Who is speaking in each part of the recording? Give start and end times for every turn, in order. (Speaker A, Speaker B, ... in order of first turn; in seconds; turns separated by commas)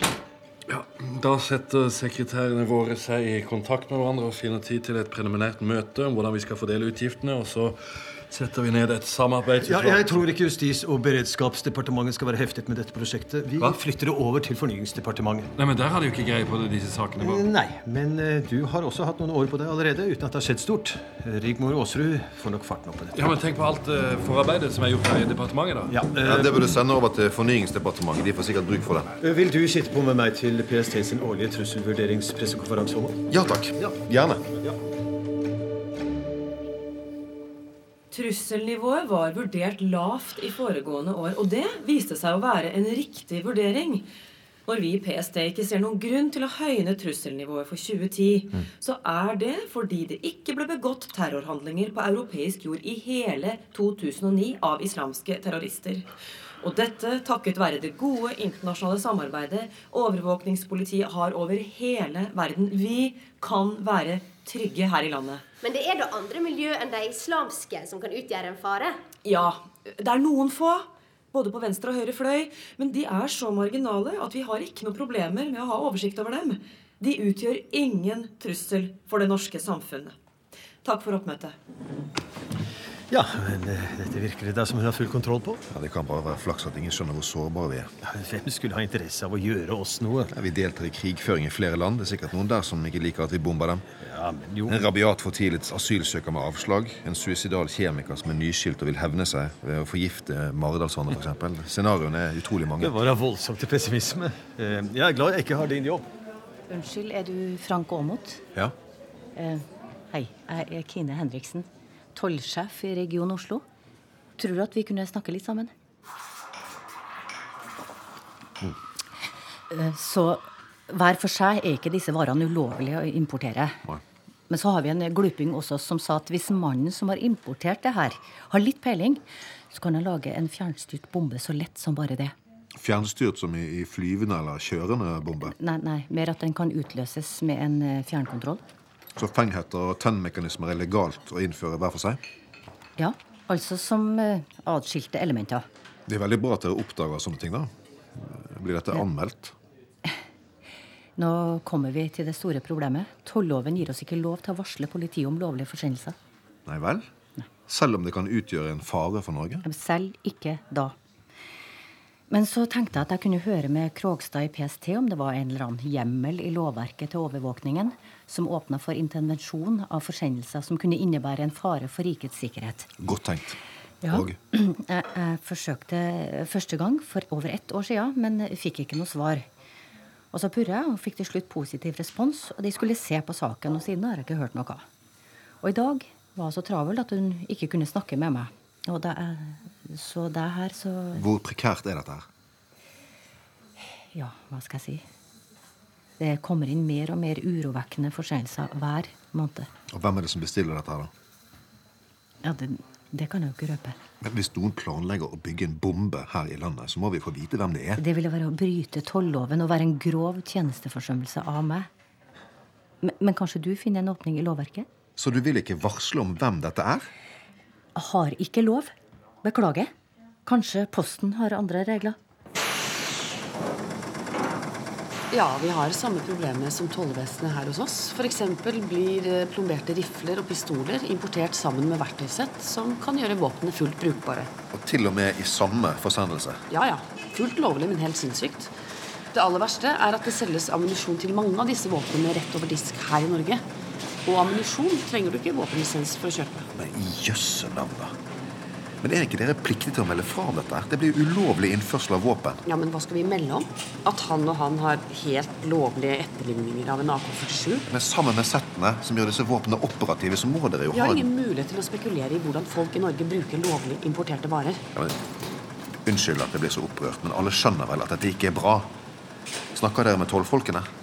Speaker A: 0.7-10.3, Speaker B: 9.6-15.5, Speaker A: 15.5-17.4, Speaker B: 17.2-23.2, Speaker A: 23.1-26.0, Speaker B: 25.9-26.6, Speaker C: 26.2-29.1, Speaker B: 29.2-33.2, Speaker C: 33.3-34.4, Speaker D: 38.1-44.0, Speaker D: 44.6-56.0, Speaker D: 56.6-65.4, Speaker E: 65.7-68.8, Speaker D: 69.2-80.1, Speaker D: 80.8-81.5, Speaker B: 83.1-85.6, Speaker C: 85.7-87.9, Speaker B: 88.0-90.3, Speaker C: 90.3-93.9, Speaker B: 94.0-94.8, Speaker C: 94.7-103.0, Speaker B: 102.8-106.1, Speaker F: 106.7-108.4, Speaker F: 109.3-113.6, Speaker F: 114.4-115.7, Speaker F: 119.7-123.8, Speaker F: 124.5-132.3, Speaker C: 132.7-135.5, Speaker F: 135.4-138.6, Speaker C: 139.2-142.2, Speaker F: 143.0-145.6, Speaker C: 146.1-149.5, Speaker F: 151.2-156.2, Speaker C: 156.7-157.1, Speaker C: 157.7-159.6, Speaker F: 159.6-160.9, Speaker F: 162.3-172.9, Speaker C: 173.0-173.6, Speaker F: 174.0-179.4, Speaker C: 174.1-174.4, Speaker F: 180.3-184.8, Speaker F: 185.6-191.2, Speaker C: 191.1-192.2, Speaker F: 194.1-195.0, Speaker F: 196.2-199.7, Speaker C: 199.9-201.1, Speaker F: 202.4-204.0, Speaker C: 204.2-208.0, Speaker F: 208.0-211.9, Speaker F: 213.0-214.9, Speaker C: 215.2-217.1, Speaker F: 217.9-219.9, Speaker F: 220.4-222.2, Speaker G: 225.3-234.5, Speaker C: 234.7-236.6, Speaker G: 236.7-238.7, Speaker G: 239.3-243.6, Speaker G: 244.2-246.7, Speaker C: 246.7-248.1, Speaker C: 249.0-252.6, Speaker G: 252.7-257.9, Speaker C: 257.9-261.3, Speaker G: 260.9-264.8, Speaker C: 266.1-268.9, Speaker C: 269.7-270.9